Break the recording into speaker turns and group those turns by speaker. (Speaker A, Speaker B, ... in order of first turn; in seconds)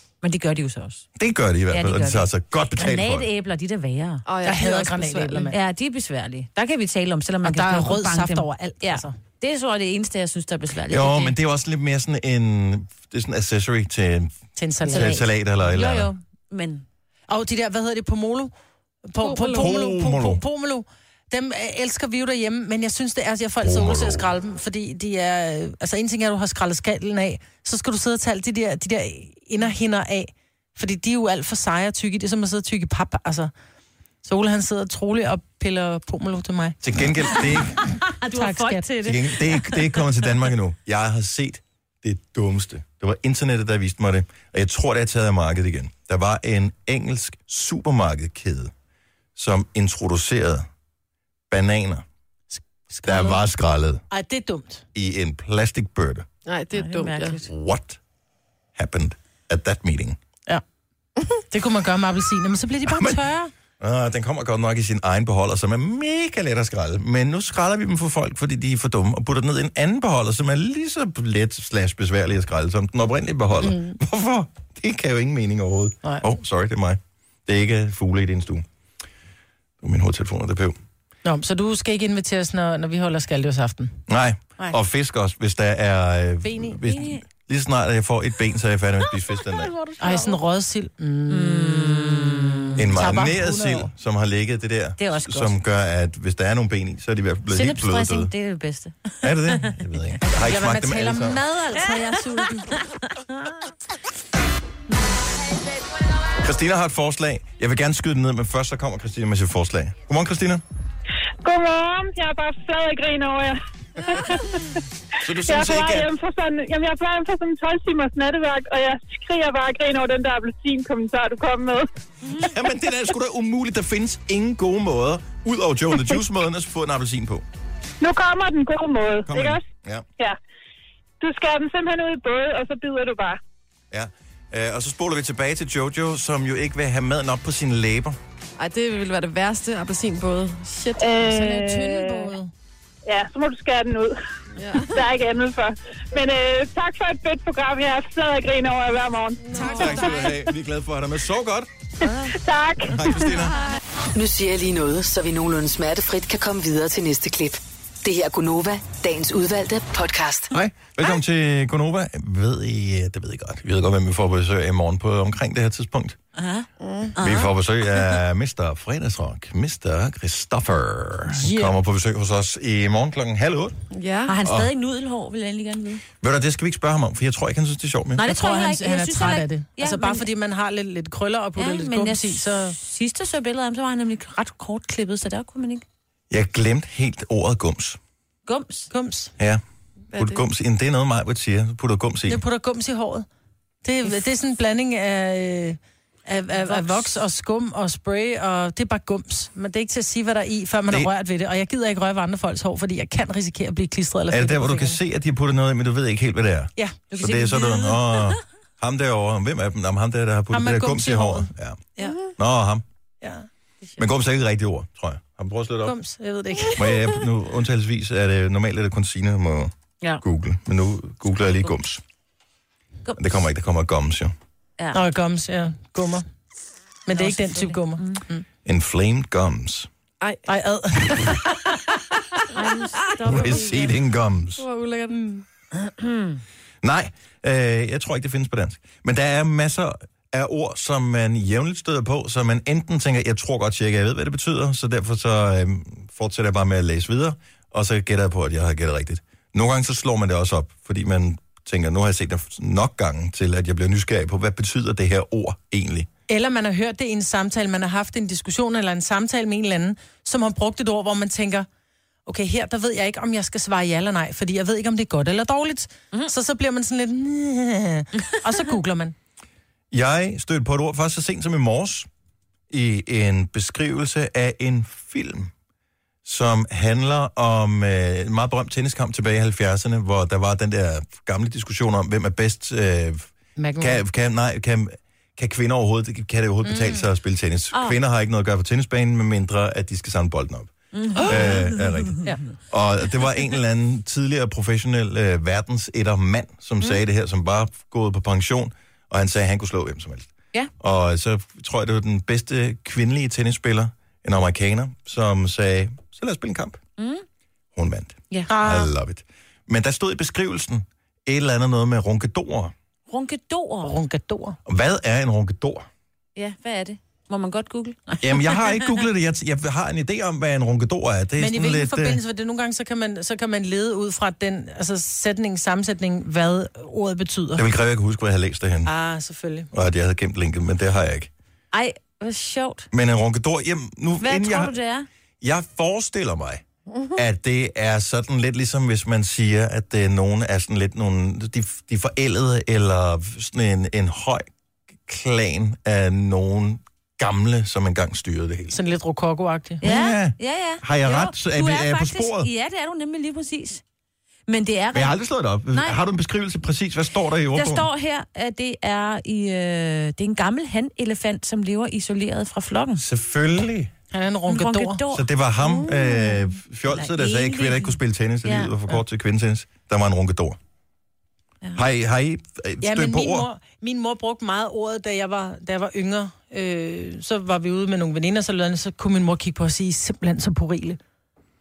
Speaker A: 0.2-1.1, 1.7-4.2, 5.5-11.3, 14.9-16.9, 38.2-40.1, 56.7-57.5, 86.9-87.2, 91.3-92.8, 95.0-95.6, 97.5-99.8, 101.7-103.4, 122.3-122.5, 166.3-167.5, 174.3-176.0, 178.2-180.3, 181.6-185.8, 188.5-188.9, 196.6-197.1, 207.1-208.4, 223.1-223.3, 227.1-228.2, 232.5-233.9, 235.9-236.4, 287.7-288.0, 290.9-292.2, 307.0-307.2, 313.1-314.0, 316.4-318.9, 331.7-332.9, 334.2-335.1, 349.8-353.8, 354.5-355.2, 355.7-356.0, 357.6-363.0, 364.5-365.3, 366.9-368.7
Speaker B: 1.2-3.3, 10.9-14.3, 14.9-16.1, 19.5-20.4, 23.6-24.3, 36.8-37.8, 39.0-48.7, 49.4-50.7, 51.5-52.0, 53.0-54.0, 55.0-56.3, 57.4-58.0, 58.8-60.2, 62.9-63.2, 63.8-78.7, 79.8-80.8, 84.1-89.7, 92.8-98.3, 99.2-101.4, 106.4-110.6, 115.2-116.1, 122.3-127.5, 129.3-130.1, 133.9-138.2, 149.6-151.7, 152.9-153.6, 160.5-166.2, 167.2-173.8, 174.4-174.7, 176.2-178.2, 186.3-188.0, 190.1-192.4, 204.3-211.8, 212.4-212.8, 214.0-216.0, 216.7-222.0, 223.2-224.3, 228.7-229.9, 233.3-234.7, 236.8-256.1, 269.9-272.1, 272.7-275.5, 276.2-306.8, 307.8-312.7, 314.7-315.9, 318.2-322.2, 327.6-328.9, 329.7-331.3, 332.9-334.8, 335.4-336.6, 337.1-344.4, 345.1-348.8, 349.8-352.5, 354.9-357.9, 363.0-363.9, 365.1-370.6, 371.8-373.5
Speaker C: 4.3-5.5, 19.2-19.7, 56.5-57.4, 138.6-141.8, 144.6-145.0, 149.5-150.1, 166.8-167.1, 173.9-174.3, 234.6-235.2
Speaker D: 4.5-5.6, 7.4-9.2, 14.6-15.1, 17.3-18.5, 19.1-33.5, 34.2-37.5, 38.3-38.9, 52.6-53.4, 54.1-54.9, 61.5-63.5, 73.6-74.0, 81.2-84.0, 86.4-86.8, 90.0-91.9, 92.9-93.9, 100.4-102.7, 141.1-142.5, 149.5-150.3, 171.3-171.8, 178.2-182.8, 188.9-189.3, 192.3-193.3, 193.8-205.0, 210.5-212.2, 213.2-213.5, 215.8-216.9, 224.9-226.2, 227.1-228.4, 230.4-231.8, 256.3-261.7, 262.3-269.1, 283.6-284.0, 286.6-287.0, 308.5-308.9, 313.8-314.6, 321.4-327.6, 328.9-329.7, 348.7-349.8, 364.1-365.0, 372.8-381.0
Speaker E: 111.4-114.6, 115.4-121.9, 128.0-129.7, 131.2-133.4, 141.0-142.2, 143.1-144.1, 144.8-150.2, 152.0-153.3
Speaker F: 154.2-160.5